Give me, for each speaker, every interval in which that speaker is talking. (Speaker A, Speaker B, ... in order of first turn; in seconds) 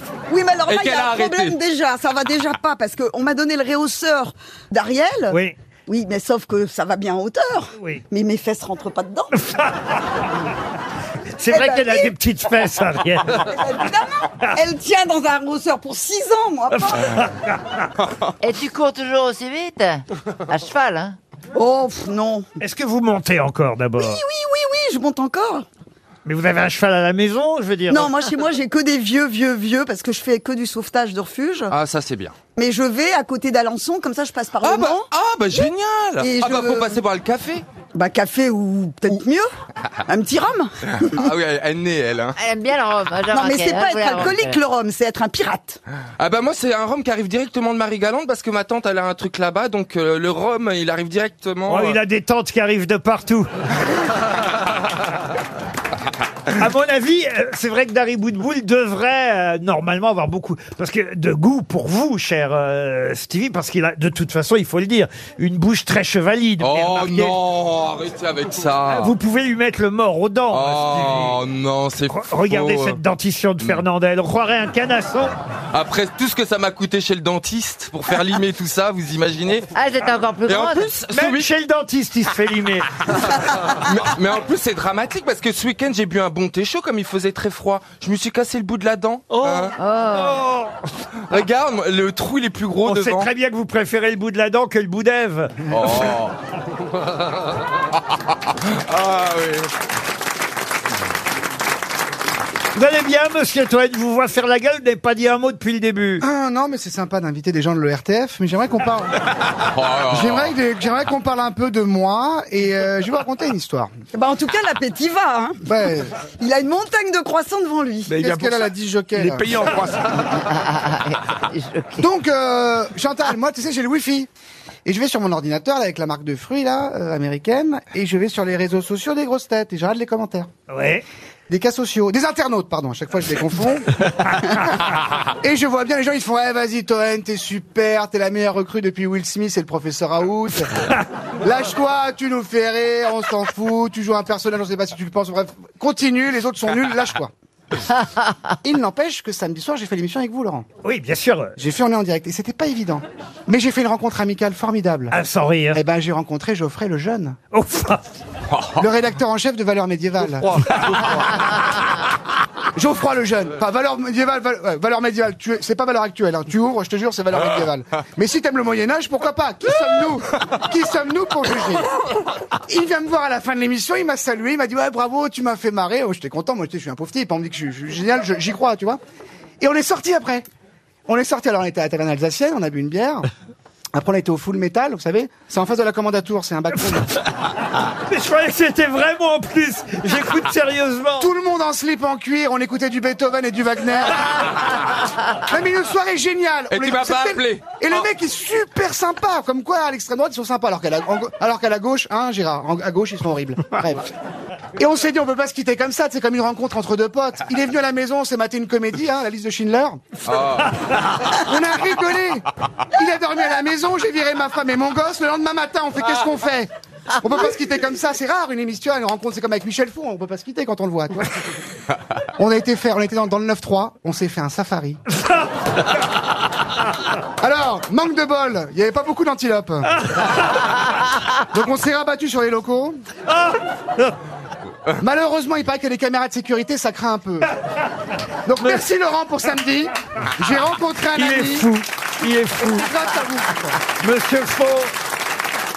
Speaker A: 0.3-5.4, 5.9-9.3, 11.5-12.1, 13.4-17.2, 21.6-22.5, 24.0-25.7, 27.9-31.7, 32.5-37.0, 38.0-39.5, 40.1-41.1, 43.3-45.8, 114.1-115.6, 116.4-118.3
Speaker B: 0.7-1.6, 31.7-32.3, 34.6-37.6, 41.0-42.3, 46.2-52.0, 66.6-69.1, 70.5-73.0, 75.7-79.7, 80.5-81.5, 83.2-89.7, 91.3-93.3, 95.7-96.3, 98.5-99.7, 109.7-110.5, 196.7-197.9, 210.2-210.7
Speaker C: 11.4-13.5, 16.9-17.2, 22.6-24.2, 26.3-28.1, 51.7-53.5, 56.5-67.4, 68.9-71.4, 72.1-75.3, 81.1-82.9, 90.1-90.8, 92.8-95.7, 102.8-106.2, 130.7-131.0, 150.8-151.6, 155.1-155.8, 157.5-158.0, 188.1-191.3, 233.3-234.1, 241.1-242.9, 244.0-244.9
Speaker D: 18.4-21.2, 42.4-44.6, 79.7-80.9, 89.8-90.4, 120.4-122.0
Speaker E: 106.2-109.1, 110.1-113.9, 115.7-116.1, 118.1-119.5, 122.0-124.3, 124.8-130.5, 131.5-134.9, 135.4-140.9, 141.4-147.3, 148.6-150.7, 151.6-155.2, 155.7-157.4, 158.8-161.2, 162.8-171.9, 172.7-179.0, 179.6-180.5, 181.1-183.3, 183.9-187.1, 191.2-194.4, 195.4-204.0, 204.8-210.0, 211.4-216.7, 217.2-221.3, 222.4-225.0, 227.4-229.9, 231.5-233.0, 235.0-237.5, 238.5-241.7